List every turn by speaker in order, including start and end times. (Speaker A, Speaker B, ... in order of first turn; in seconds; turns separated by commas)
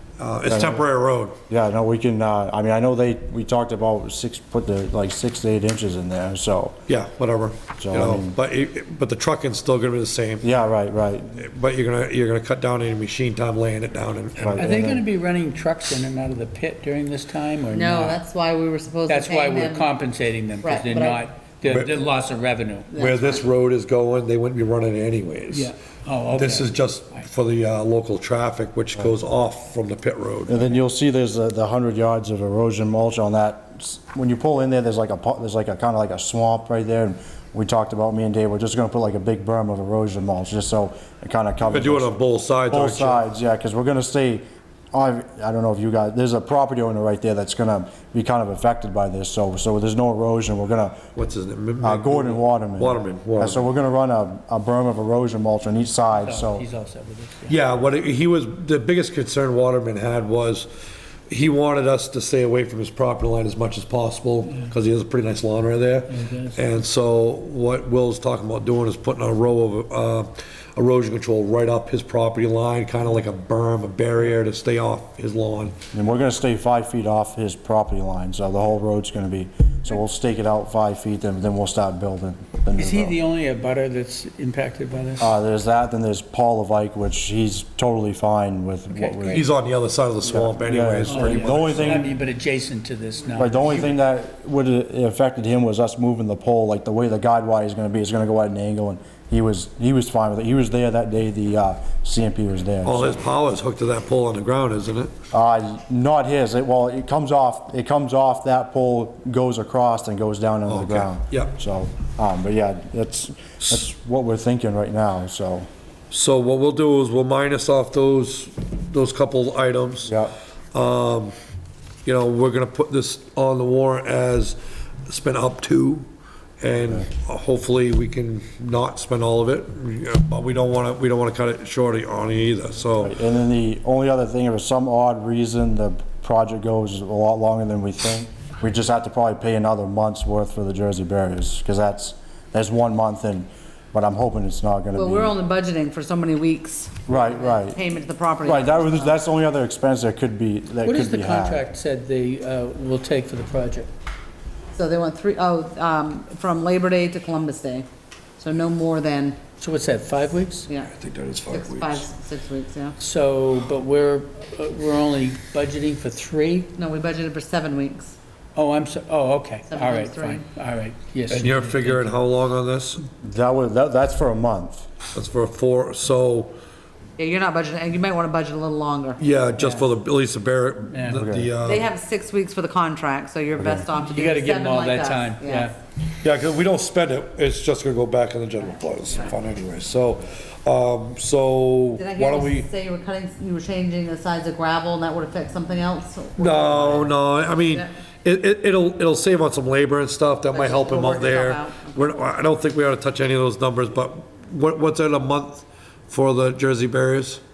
Speaker A: 0.2-1.3, Speaker B: 0.5-0.8, Speaker B: 1.5-6.8, Speaker A: 6.9-10.5, Speaker B: 7.8-8.4, Speaker B: 10.4-11.4, Speaker A: 11.3-14.7, Speaker B: 14.4-15.0, Speaker C: 14.5-18.2, Speaker D: 17.7-19.9, Speaker C: 19.1-22.9, Speaker D: 20.6-21.2, Speaker A: 21.6-21.9, Speaker D: 22.9-23.4, Speaker A: 22.9-25.7, Speaker C: 25.5-27.2, Speaker A: 26.3-30.6, Speaker B: 30.5-42.1, Speaker A: 41.6-43.2, Speaker B: 42.7-51.1, Speaker A: 51.1-53.7, Speaker B: 51.8-56.6, Speaker C: 56.1-57.6, Speaker A: 57.5-60.7, Speaker A: 61.3-75.7, Speaker C: 66.1-66.7, Speaker B: 75.9-83.2, Speaker C: 82.7-85.3, Speaker B: 85.2-89.4, Speaker C: 88.9-89.4, Speaker A: 89.3-92.1, Speaker B: 90.3-92.1, Speaker C: 91.1-93.9, Speaker B: 93.3-103.1, Speaker A: 102.8-105.1, Speaker B: 105.3-115.7, Speaker A: 110.7-111.5, Speaker A: 113.6-113.9, Speaker A: 116.1-120.2, Speaker B: 120.1-120.3, Speaker A: 120.7-121.3, Speaker A: 122.0-126.1, Speaker A: 126.6-133.2, Speaker B: 126.8-127.1, Speaker B: 133.0-145.4, Speaker D: 144.9-149.2, Speaker B: 147.1-147.8, Speaker B: 148.4-151.6, Speaker C: 150.8-153.9, Speaker D: 154.7-157.9, Speaker D: 158.4-159.4, Speaker C: 159.6-160.7, Speaker A: 160.9-162.1, Speaker D: 161.5-163.0, Speaker C: 163.0-166.7, Speaker D: 166.7-168.2, Speaker C: 168.5-172.2, Speaker D: 169.7-170.4, Speaker A: 171.3-173.1, Speaker B: 173.2-174.9, Speaker A: 175.1-176.5, Speaker D: 177.2-179.9, Speaker A: 179.2-181.9, Speaker C: 180.9-181.2, Speaker B: 181.1-181.5, Speaker D: 181.6-185.7, Speaker B: 183.5-183.9, Speaker C: 183.9-185.7, Speaker A: 186.2-192.7, Speaker D: 192.0-197.9, Speaker A: 196.4-207.4, Speaker D: 200.5-202.1